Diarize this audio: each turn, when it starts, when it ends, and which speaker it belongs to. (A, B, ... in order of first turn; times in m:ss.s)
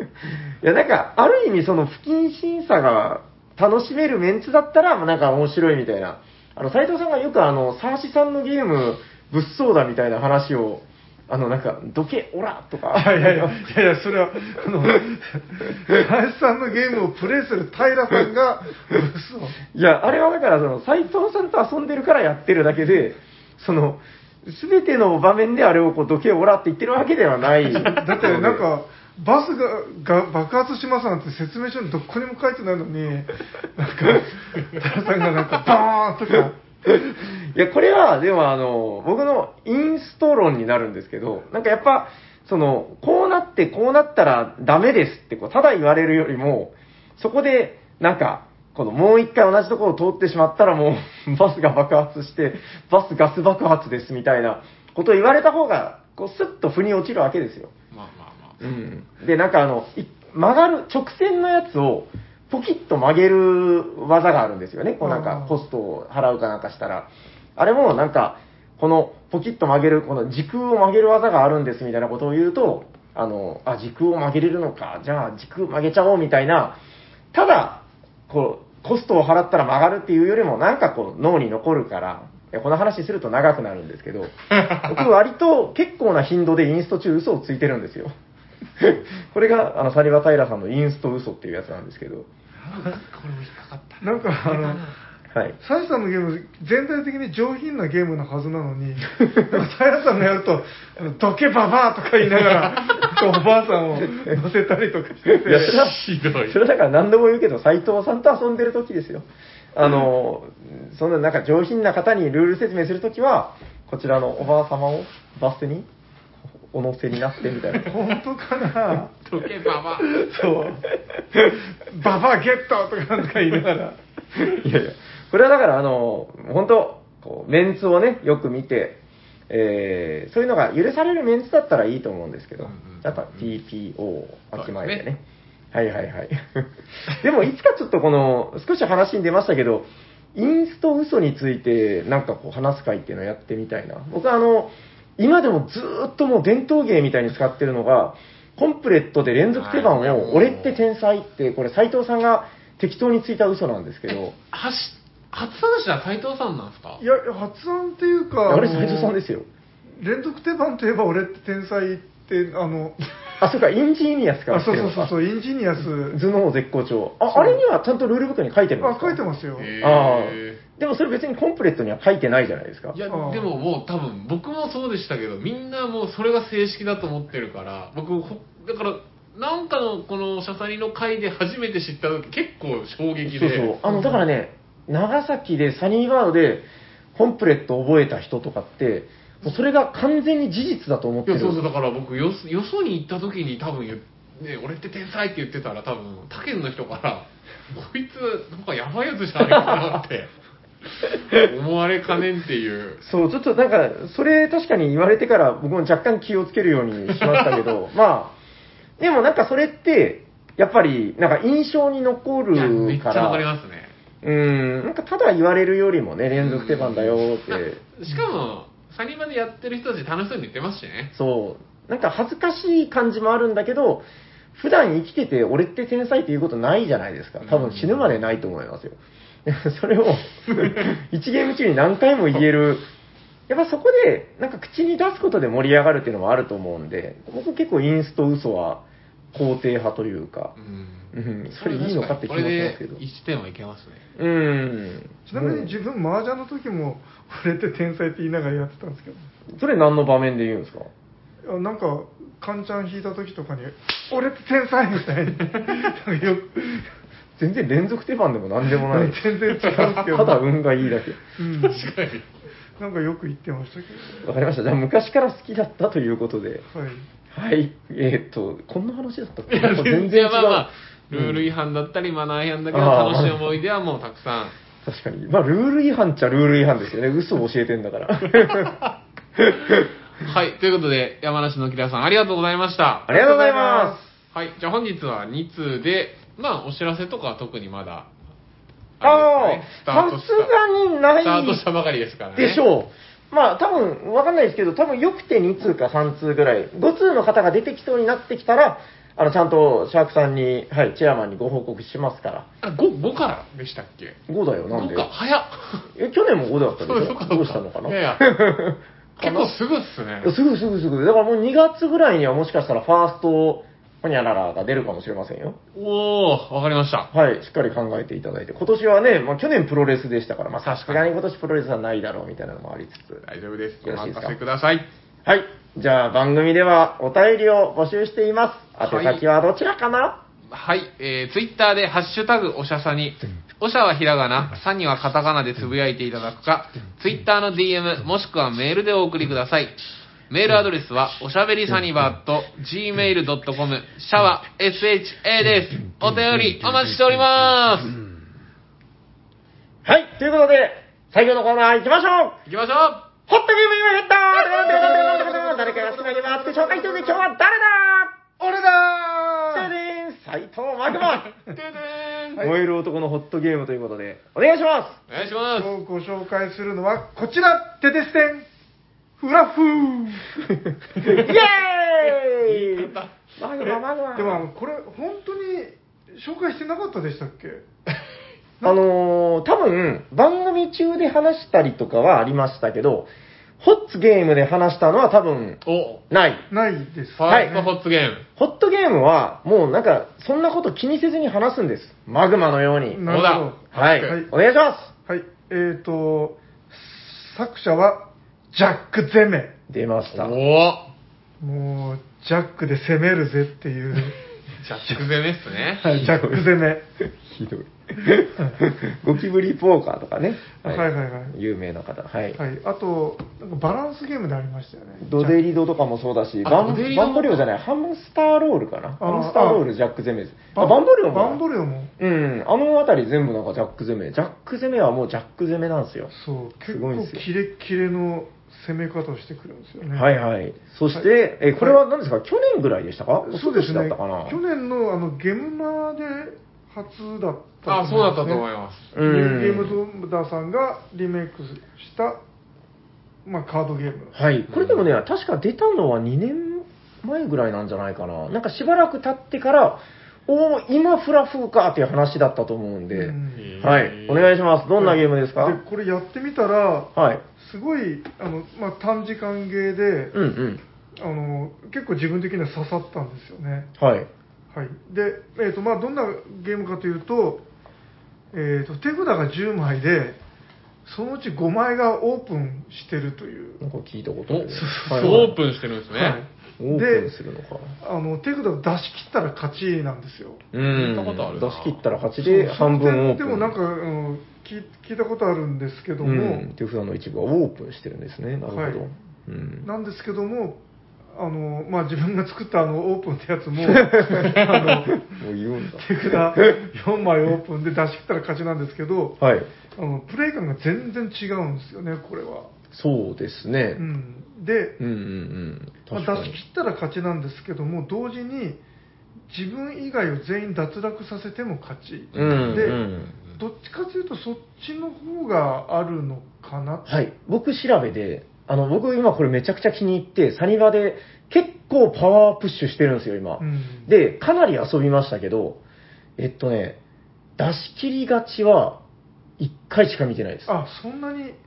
0:00.3-0:13.7 A
0:12.9-0:19.6 B
0:19.7-0:28.6 A
0:27.8-0:36.6 B
0:36.9-0:57.7 A
0:57.9-0:58.7 C
0:58.6-1:16.8 A
1:05.0-1:05.6 B
1:17.3-1:28.2 A
1:24.6-1:24.9 C
1:28.8-1:32.3 A
1:32.6-1:35.0 C
1:34.0-1:34.8 B
1:35.3-1:35.6 A
1:35.6-1:45.8 B
1:45.3-1:55.9 A
1:45.5-1:46.6 C
1:56.5-1:57.9 A
1:57.8-1:59.2 B
1:59.2-2:00.1 C
2:00.0-2:00.9 B
2:01.8-2:04.0 B
2:04.4-2:15.2 A
2:12.6-2:13.5 C
2:14.6-2:15.1 C
2:15.7-2:34.4 A
2:29.5-2:30.8 C
2:34.1-2:37.0 C
2:37.0-2:39.2 B
2:38.5-2:39.5 A
2:40.0-2:43.1 B
2:43.4-2:45.1 A
2:44.5-2:46.2 B
2:46.1-2:49.2 A
2:47.3-2:47.6 B
2:48.8-2:49.7 B
2:49.6-2:50.6 C
2:49.8-2:53.0 A
2:52.9-3:04.2 C
2:53.1-2:53.5 B
3:03.3-3:11.6 A
3:11.3-3:20.3 C
3:19.6-3:19.8 A
3:21.0-3:23.0 C
3:23.0-3:28.4 A
3:27.1-3:27.6 C
3:29.0-3:33.4 A
3:32.5-3:33.9 C
3:34.2-3:37.8 A
3:36.4-3:41.1 C
3:41.1-3:52.9 A
3:47.4-3:48.2 C
3:50.4-3:51.0 C
3:53.5-4:00.6 A
4:00.6-4:04.0 C
4:01.1-4:03.0 A
4:04.2-4:05.8 A
4:05.3-4:09.3 B
4:09.5-4:10.9 A
4:11.4-4:16.9 B
4:17.4-4:21.2 A
4:18.8-4:20.4 B
4:19.7-4:20.0 C
4:21.4-4:21.9 B
4:21.6-4:22.3 C
4:22.8-4:24.3 B
4:24.2-4:26.6 A
4:26.7-4:27.1 B
4:27.3-4:31.5 A
4:29.5-4:34.6 C
4:32.7-4:33.6 A
4:34.8-4:38.7 A
4:38.4-4:38.9 C
4:39.4-4:39.9 A
4:40.2-4:43.1 C
4:43.1-4:44.0 A
4:43.1-4:44.1 B
4:44.3-4:48.1 C
4:49.0-4:50.5 C
4:49.0-4:51.6 A
4:51.2-4:52.6 C
4:52.4-5:02.5 A
5:02.6-5:04.2 C
5:04.3-5:05.1 A
5:04.7-5:05.9 C
5:05.9-5:09.6 A
5:06.8-5:08.4 C
5:09.2-5:10.3 C
5:10.2-5:15.6 A
5:15.8-5:17.1 C
5:17.1-5:23.2 A
5:20.6-5:21.1 C
5:23.2-5:24.9 C
5:23.8-5:24.4 A
5:25.2-5:30.2 A
5:28.8-5:29.2 C
5:30.5-5:39.8 C
5:40.3-5:48.0 C
5:49.8-5:52.4 A
5:52.5-5:53.1 C
5:53.3-5:58.3 A
5:54.4-5:57.3 B
5:58.4-5:59.7 B
5:59.5-6:01.3 A
6:01.3-6:02.4 C
6:02.4-6:05.0 A
6:05.1-6:05.7 C
6:05.6-6:08.5 B
6:09.2-6:10.4 B
6:11.0-6:14.5 A
6:11.0-6:11.3 C
6:12.0-6:13.8 C
6:14.1-6:17.6 B
6:18.6-6:26.5 A
6:25.6-6:26.0 C
6:26.5-6:27.7 B
6:27.2-6:28.3 C
6:27.3-6:27.5 A
6:28.4-6:33.1 A
6:32.9-6:34.3 B
6:33.1-6:34.1 C
6:33.7-6:34.9 A
6:35.1-6:39.6 B
6:39.7-6:40.4 A
6:40.1-6:40.9 C
6:41.4-6:44.2 B
6:44.6-6:46.1 C
6:45.8-6:46.8 B
6:46.0-6:46.5 A
6:47.0-6:52.4 A
6:50.6-6:51.3 B
6:52.4-6:55.4 B
6:55.0-7:01.4 A
6:56.4-6:57.5 C
6:59.0-6:59.7 B
7:00.5-7:01.9 B
7:02.0-7:06.1 A
7:06.1-7:10.1 B
7:06.6-7:07.3 A
7:09.9-7:14.4 A
7:10.9-7:11.8 B
7:13.2-7:18.4 B
7:17.6-7:18.9 C
7:18.9-7:19.8 A
7:19.0-7:22.2 B
7:23.2-7:24.2 B
7:24.1-7:35.6 A
7:24.5-7:24.9 C
7:32.9-7:33.6 B
7:33.4-7:34.4 C
7:34.8-7:40.2 B
7:37.0-7:37.2 A
7:40.1-7:40.6 A
7:41.0-7:43.7 B
7:43.8-7:44.1 A
7:44.5-7:47.5 B
7:48.3-7:50.2 B
7:50.9-7:53.6 B
7:53.6-7:55.4 A
7:54.3-7:56.2 C
7:54.5-7:55.3 B
7:55.9-7:57.1 B
7:56.6-7:57.8 A
7:57.8-8:00.4 B
8:00.5-8:03.6 A
8:00.6-8:01.8 C
8:02.2-8:06.5 B
8:06.0-8:09.7 A
8:08.5-8:08.9 B
8:09.6-8:10.6 B
8:11.1-8:15.1 B
8:13.6-8:16.6 A
8:15.8-8:19.2 B
8:19.2-8:19.5 A
8:19.8-8:22.5 B
8:22.7-8:23.8 A
8:23.8-8:24.8 B
8:24.8-8:26.4 A
8:25.9-8:28.6 B
8:29.3-8:32.8 B
8:32.1-8:33.4 C
8:32.2-8:33.1 A
8:33.4-8:36.9 B
8:36.9-8:45.6 A
8:43.4-8:43.9 B
8:46.2-8:46.8 A
8:47.4-8:48.8 A
8:49.4-8:50.6 A
8:50.5-8:51.4 B